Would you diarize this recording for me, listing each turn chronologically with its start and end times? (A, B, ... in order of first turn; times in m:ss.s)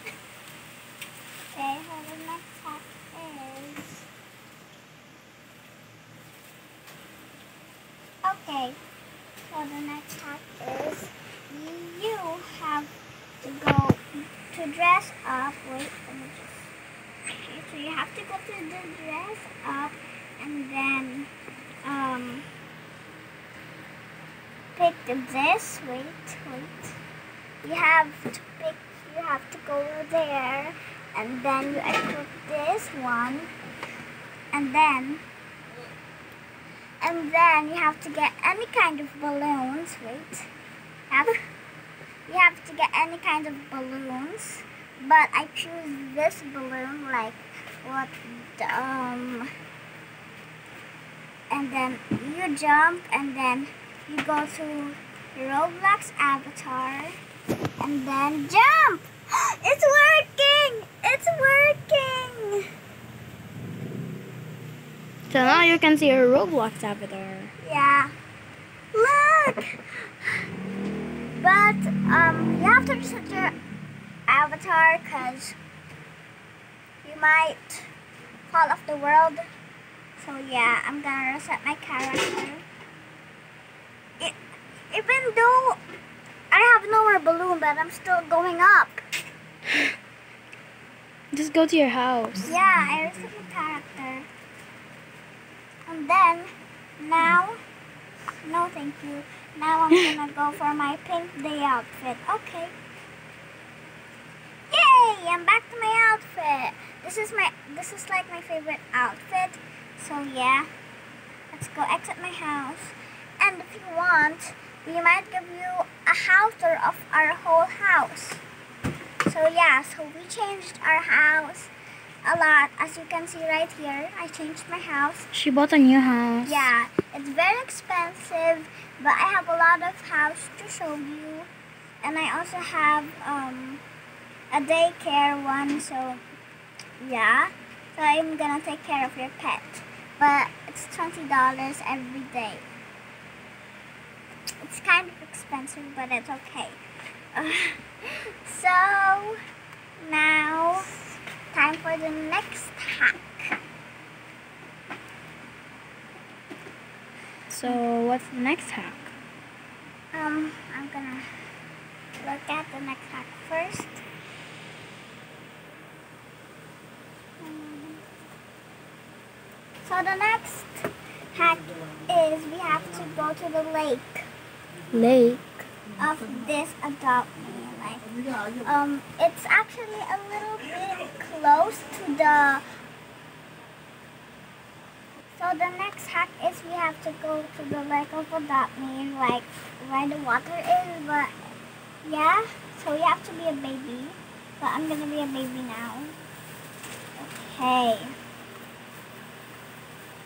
0:01.5-0:04.1 A
0:08.2-0:08.8 A
0:09.4-0:12.9 A
0:13.4-0:16.7 A
0:17.2-0:21.3 A
0:21.8-0:22.5 A
0:24.7-0:27.0 A
0:27.6-0:33.5 A
0:34.5-0:35.2 A
0:37.0-0:40.5 A
0:42.3-0:49.5 A
0:51.5-0:57.1 A
0:57.8-1:02.6 A
1:05.3-1:07.5 B
1:05.4-1:05.8 A
1:07.6-1:08.1 A
1:08.9-1:10.1 A
1:11.4-1:13.5 A
1:14.3-1:15.6 A
1:17.0-1:17.9 A
1:18.5-1:19.5 A
1:20.2-1:22.6 A
1:24.9-1:25.8 A
1:26.5-1:29.0 A
1:31.3-1:32.5 B
1:32.4-1:34.3 A
1:35.9-1:37.6 A
1:38.4-1:42.7 A
1:44.7-1:50.7 A
1:51.5-1:58.4 A
1:59.2-2:01.7 A
2:02.2-2:05.3 A
2:05.3-2:06.6 B
2:06.4-2:11.5 A
2:12.0-2:13.8 A
2:14.5-2:16.2 A
2:17.0-2:22.6 A
2:24.6-2:26.8 A
2:27.3-2:27.9 A
2:28.4-2:29.4 A
2:30.0-2:33.6 A
2:37.5-2:39.1 B
2:40.1-2:41.3 A
2:42.2-2:44.0 A
2:47.4-2:48.0 A
2:49.8-2:54.3 A
2:54.9-2:55.6 B
2:56.0-2:58.0 A
2:58.6-3:02.6 A
3:05.4-3:11.3 A
3:12.0-3:16.1 A
3:17.2-3:18.1 A